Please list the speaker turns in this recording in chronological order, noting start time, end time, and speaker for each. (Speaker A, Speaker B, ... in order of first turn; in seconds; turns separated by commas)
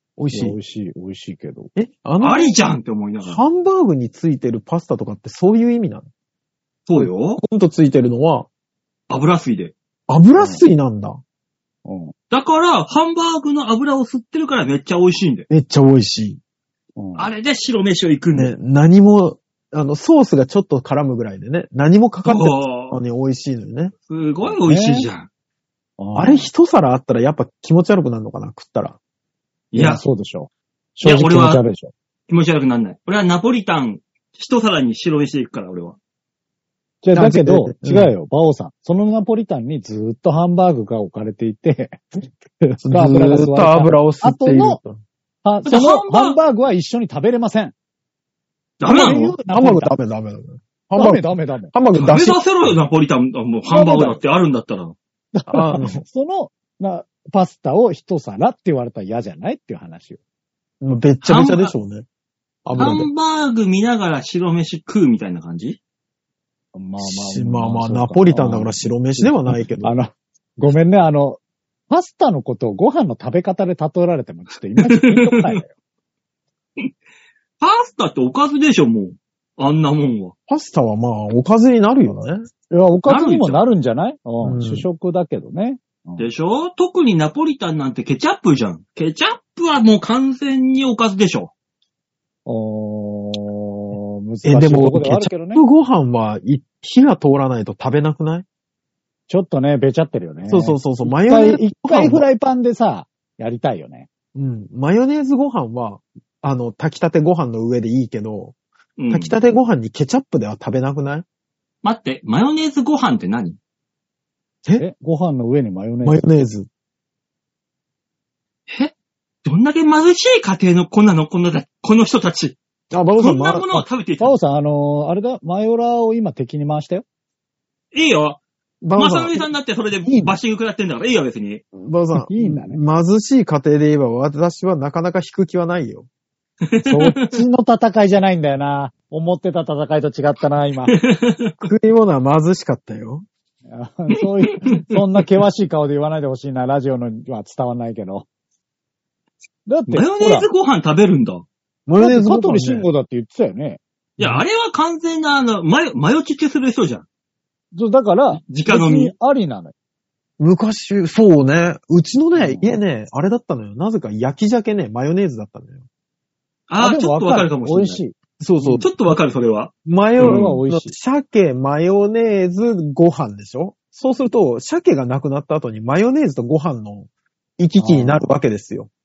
Speaker A: 0.2-0.6, Speaker B: 0.3-1.7, Speaker A: 1.8-2.6, Speaker C: 2.2-3.4, Speaker A: 3.2-6.1, Speaker C: 6.9-7.4, Speaker A: 7.0-8.5, Speaker C: 9.1-9.7, Speaker A: 10.1-11.2, Speaker B: 10.4-10.6, Speaker B: 11.8-12.1, Speaker C: 12.3-15.5, Speaker A: 15.5-16.4, Speaker B: 17.0-17.3, Speaker C: 17.2-18.5, Speaker A: 18.3-23.9, Speaker C: 22.2-23.0, Speaker C: 24.1-25.3, Speaker B: 24.4-25.1, Speaker B: 26.0-26.5, Speaker A: 26.1-29.0, Speaker C: 29.7-30.0, Speaker B: 29.8-31.9, Speaker C: 31.0-31.6, Speaker C: 32.3-36.0, Speaker B: 37.0-44.8, Speaker A: 37.1-38.1, Speaker A: 42.8-45.0, Speaker B: 45.5-47.7, Speaker C: 45.6-46.4, Speaker C: 48.8-49.3, Speaker B: 48.9-49.9, Speaker A: 49.0-52.4, Speaker B: 51.0-51.7, Speaker C: 51.9-55.0, Speaker B: 53.7-54.2, Speaker B: 55.4-60.2, Speaker A: 55.5-56.0, Speaker A: 60.8-62.1, Speaker C: 61.2-61.7, Speaker A: 62.6-63.1, Speaker C: 62.8-65.8, Speaker B: 66.7-75.7, Speaker A: 67.0-69.9, Speaker C: 74.8-75.6, Speaker C: 77.6-80.3, Speaker A: 80.5-82.5, Speaker B: 82.7-86.3, Speaker C: 83.1-83.6, Speaker A: 84.4-84.9, Speaker C: 86.2-91.5, Speaker B: 92.5-95.6, Speaker A: 94.4-98.5, Speaker B: 99.3-104.1, Speaker A: 100.5-102.3, Speaker A: 104.3-108.6, Speaker C: 109.0-109.4, Speaker A: 109.1-111.2, Speaker C: 111.8-113.6, Speaker B: 114.8-116.3, Speaker A: 116.0-116.7, Speaker C: 118.7-122.6, Speaker A: 122.9-123.7, Speaker C: 123.2-124.4, Speaker B: 123.7-127.0, Speaker C: 127.9-128.4, Speaker A: 128.8-129.5, Speaker C: 129.0-131.6, Speaker B: 130.0-130.4, Speaker A: 131.7-136.1, Speaker B: 132.2-132.8, Speaker C: 136.7-137.4, Speaker B: 136.8-140.9, Speaker C: 140.9-141.6, Speaker A: 141.6-143.3, Speaker B: 143.7-148.3, Speaker C: 144.5-145.0, Speaker B: 149.7-150.5, Speaker C: 149.9-151.4, Speaker A: 151.9-152.9, Speaker B: 152.0-154.4, Speaker C: 154.2-157.1, Speaker B: 157.7-159.7, Speaker C: 158.5-159.1, Speaker A: 160.4-165.8, Speaker B: 162.3-162.8, Speaker C: 166.7-168.0, Speaker B: 166.8-168.2, Speaker A: 168.4-169.1, Speaker C: 168.6-170.6, Speaker A: 169.8-177.1, Speaker B: 170.2-170.9, Speaker A: 177.6-178.9, Speaker B: 177.8-178.4